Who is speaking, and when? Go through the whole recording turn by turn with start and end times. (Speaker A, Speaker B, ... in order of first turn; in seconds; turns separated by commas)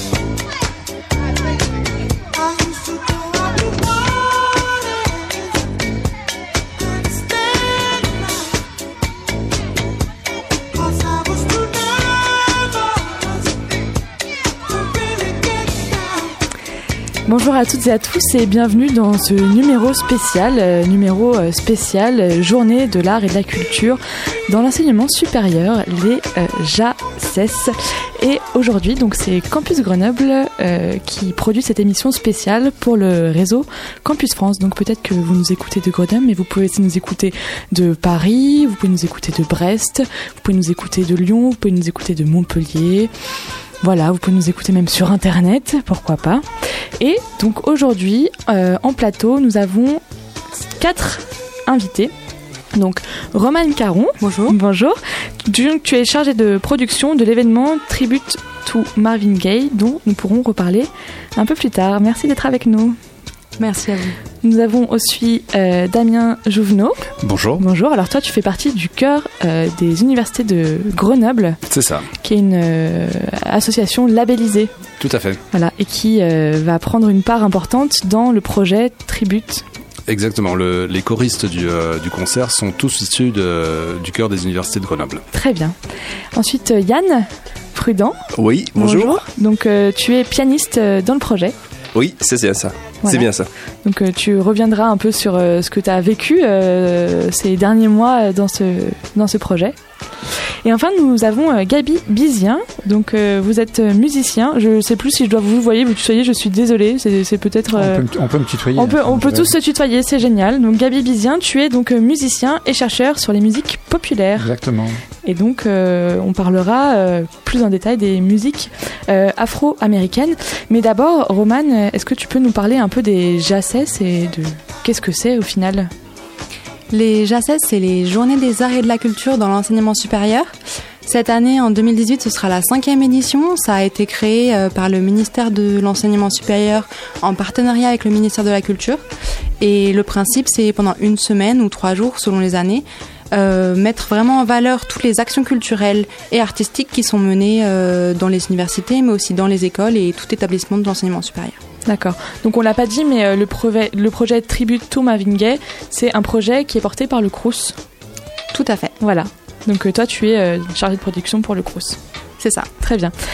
Speaker A: 17.3-43.1, Speaker A: 43.8-46.5, Speaker A: 47.0-50.0, Speaker A: 50.8-52.1, Speaker A: 52.7-63.0, Speaker B: 54.2-54.5, Speaker B: 63.6-64.2, Speaker A: 64.4-71.6, Speaker C: 67.2-67.6, Speaker C: 71.7-72.1, Speaker A: 72.2-74.7, Speaker C: 75.0-75.4, Speaker A: 75.5-79.6, Speaker C: 80.1-85.2, Speaker A: 85.3-85.8, Speaker A: 86.3-88.2, Speaker D: 88.3-89.2, Speaker A: 88.8-91.5, Speaker D: 92.0-93.5, Speaker A: 93.8-99.8, Speaker A: 100.6-108.0, Speaker E: 107.7-109.5, Speaker A: 108.8-114.5, Speaker E: 114.4-115.0, Speaker A: 115.2-125.9, Speaker B: 126.9-130.5, Speaker B: 131.1-139.0, Speaker B: 139.6-151.6, Speaker A: 151.9-157.8, Speaker B: 158.5-158.9, Speaker A: 159.0-162.0, Speaker B: 162.4-162.7, Speaker A: 162.8-163.1